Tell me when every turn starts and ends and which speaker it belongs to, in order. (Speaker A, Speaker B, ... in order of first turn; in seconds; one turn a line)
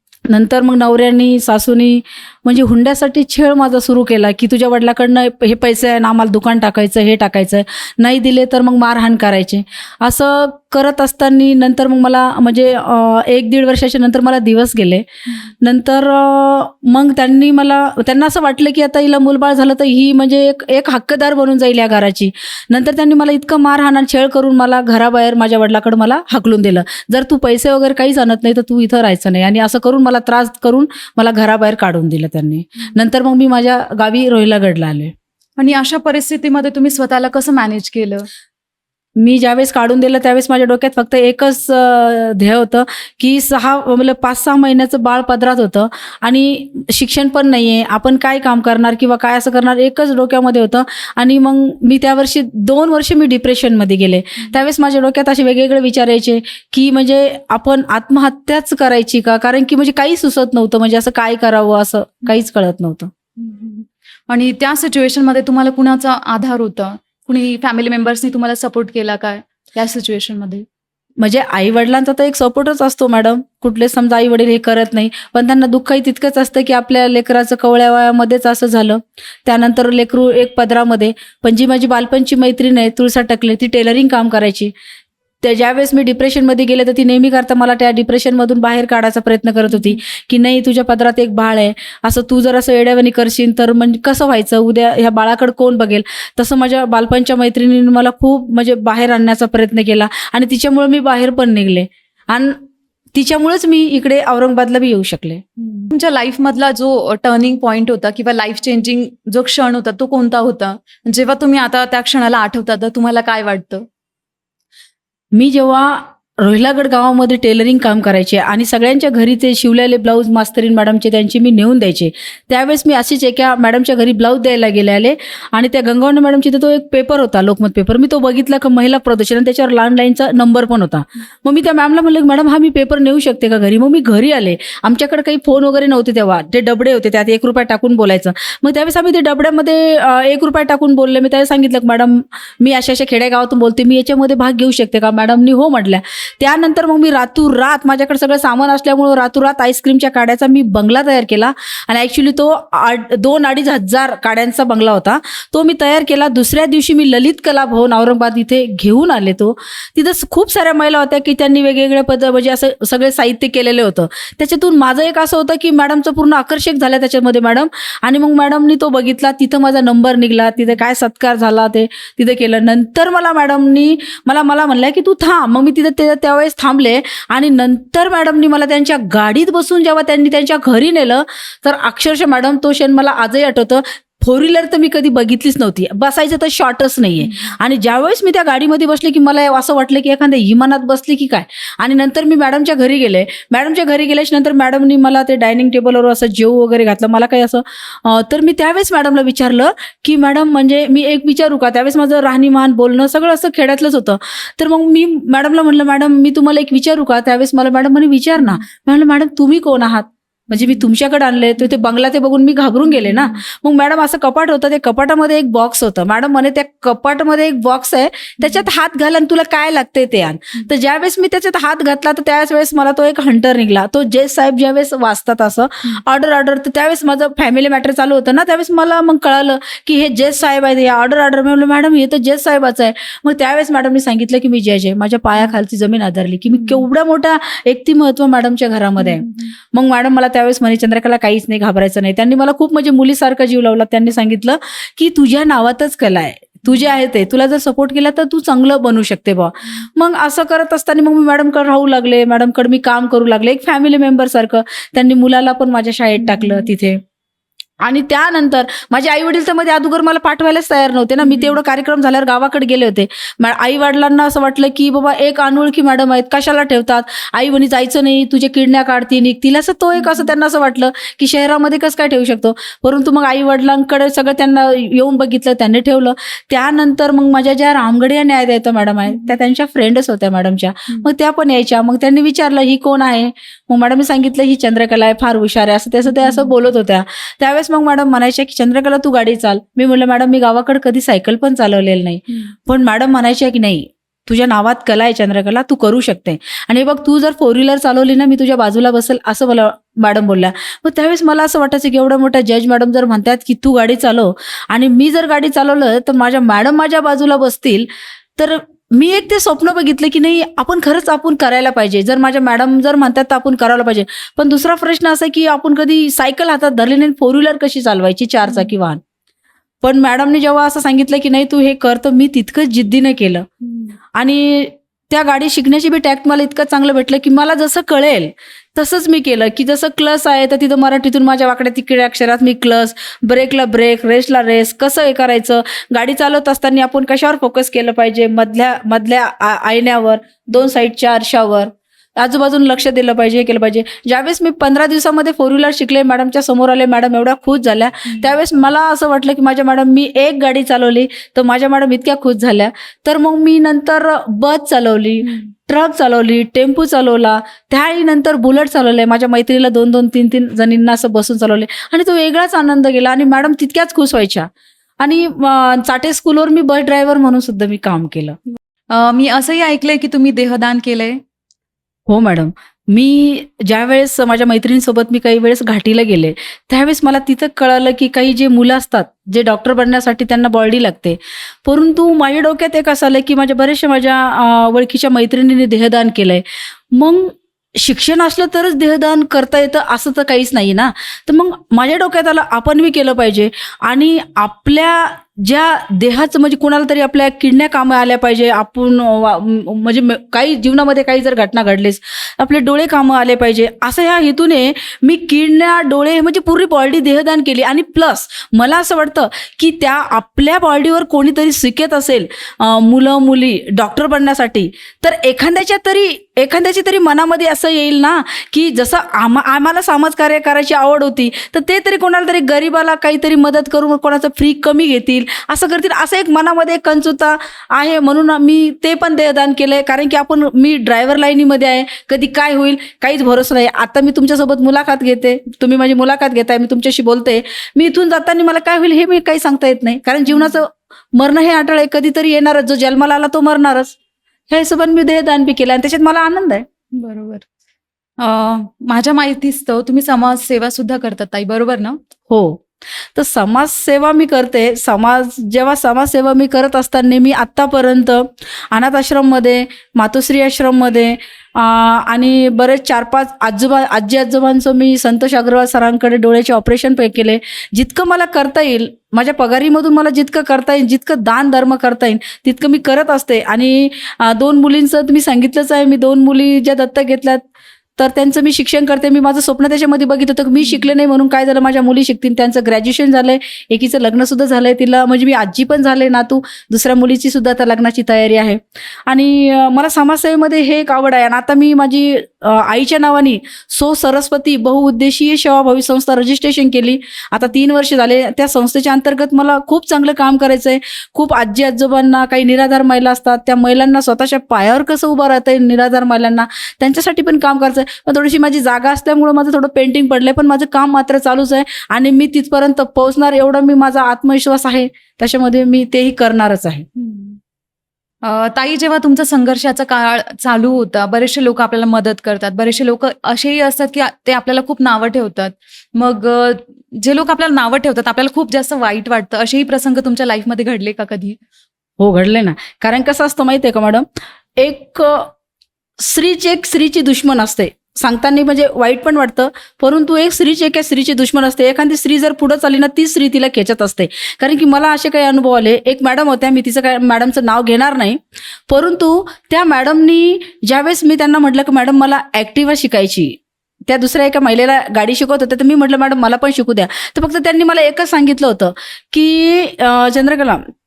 Speaker A: 0.3-15.1
Speaker A: 15.6-35.1
Speaker B: 35.6-38.3
Speaker A: 39.2-63.1
Speaker B: 63.4-70.6
Speaker A: 71.2-84.7
Speaker A: 85.4-102.6
Speaker B: 89.7-90.0
Speaker A: 103.1-105.4
Speaker B: 105.6-113.8
Speaker A: 115.3-257.0
Speaker B: 210.5-210.8
Speaker B: 212.9-213.3
Speaker B: 236.5-236.8
Speaker B: 239.0-239.5
Speaker B: 256.2-256.7
Speaker A: 257.8-307.9
Speaker B: 261.2-261.5
Speaker B: 270.0-270.3
Speaker B: 286.1-286.5
Speaker A: 308.4-319.0
Speaker B: 318.4-318.7
Speaker A: 319.8-323.4
Speaker B: 323.6-323.9
Speaker A: 324.2-364.5
Speaker A: 365.0-368.4
Speaker B: 368.9-371.2
Speaker A: 372.1-443.9
Speaker B: 440.2-440.6
Speaker A: 444.5-446.6
Speaker B: 446.9-447.4
Speaker B: 448.2-452.0
Speaker A: 452.3-452.6
Speaker A: 453.1-477.4
Speaker A: 478.0-516.9
Speaker B: 480.6-480.9
Speaker B: 517.0-517.4
Speaker B: 518.2-531.4
Speaker A: 532.0-534.0
Speaker A: 534.6-535.3
Speaker A: 536.0-560.6